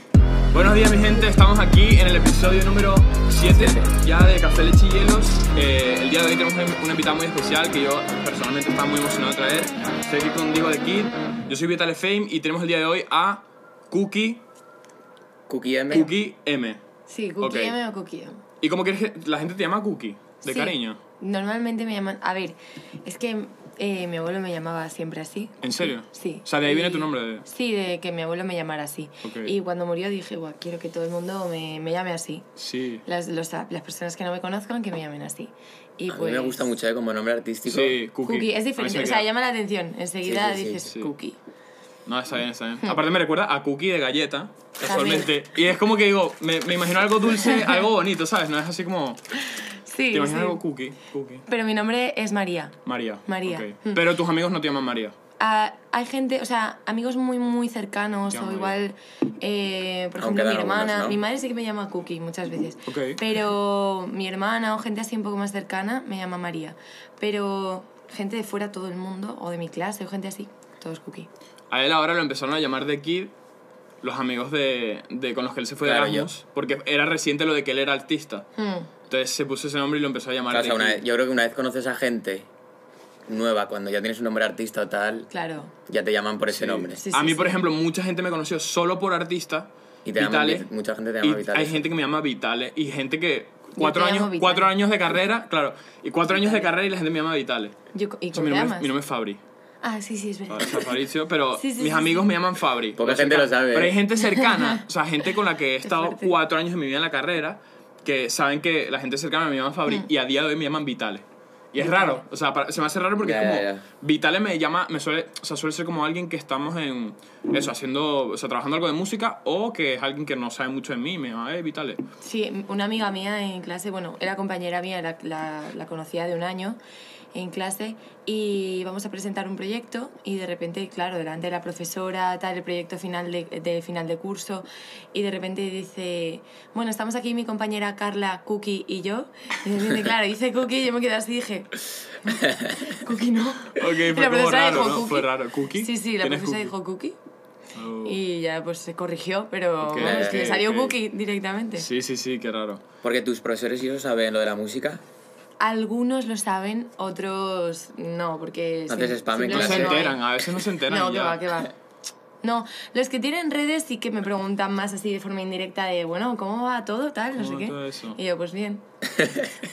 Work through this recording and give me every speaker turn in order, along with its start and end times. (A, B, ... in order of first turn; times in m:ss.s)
0:00.5-0:14.4 A
0:03.5-0:03.8 B
0:15.5-0:16.1 B
0:15.9-0:16.1 C
0:15.9-0:16.8 A
0:17.1-0:18.4 C
0:17.4-0:17.8 A
0:18.6-0:21.0 A
0:20.4-0:32.5 C
0:25.6-0:27.4 A
0:29.2-0:29.5 A
0:32.6-0:33.0 A
0:33.0-0:36.6 C
0:36.1-0:38.0 B
0:37.7-0:39.3 A
0:38.2-0:41.4 C
0:40.2-0:40.9 B
0:42.0-0:49.2 A
0:44.8-0:45.3 C
0:47.3-0:47.8 C
0:49.5-0:50.6 C
0:50.1-0:51.4 A
0:51.5-0:54.0 C
0:52.8-0:55.1 A
0:55.4-1:11.3 C
0:58.3-0:58.7 A
1:00.2-1:01.2 B
1:02.9-1:03.2 A
1:11.7-1:13.3 A
1:14.0-1:18.5 A
1:15.8-1:16.3 B
1:18.6-1:18.9 C
1:19.1-1:21.0 A
1:20.5-1:22.5 B
1:23.3-1:25.3 B
1:25.3-1:25.7 C
1:25.9-1:27.0 B
1:26.5-1:30.7 A
1:27.0-1:27.6 C
1:30.0-1:31.9 B
1:31.2-1:37.7 A
1:33.8-1:34.7 C
1:37.9-1:38.9 C
1:38.3-1:39.4 A
1:39.8-1:40.9 C
1:40.5-2:02.0 A
1:41.6-1:42.2 C
1:43.0-1:44.0 B
1:44.2-1:44.8 C
1:45.8-1:46.4 C
1:51.8-1:52.2 C
1:53.2-1:53.8 B
2:02.2-2:06.8 C
2:07.3-2:27.2 C
2:22.4-2:22.8 B
2:23.7-2:26.7 A
2:27.7-2:28.2 A
2:28.0-2:31.9 C
2:29.8-2:31.0 A
2:30.0-2:30.6 B
2:31.8-2:32.8 A
2:33.0-2:35.0 B
2:35.6-2:40.3 C
2:38.9-2:40.1 B
2:39.5-2:41.4 A
2:40.8-2:41.7 C
2:42.4-2:48.8 C
2:47.4-2:48.2 A
2:49.2-2:49.5 B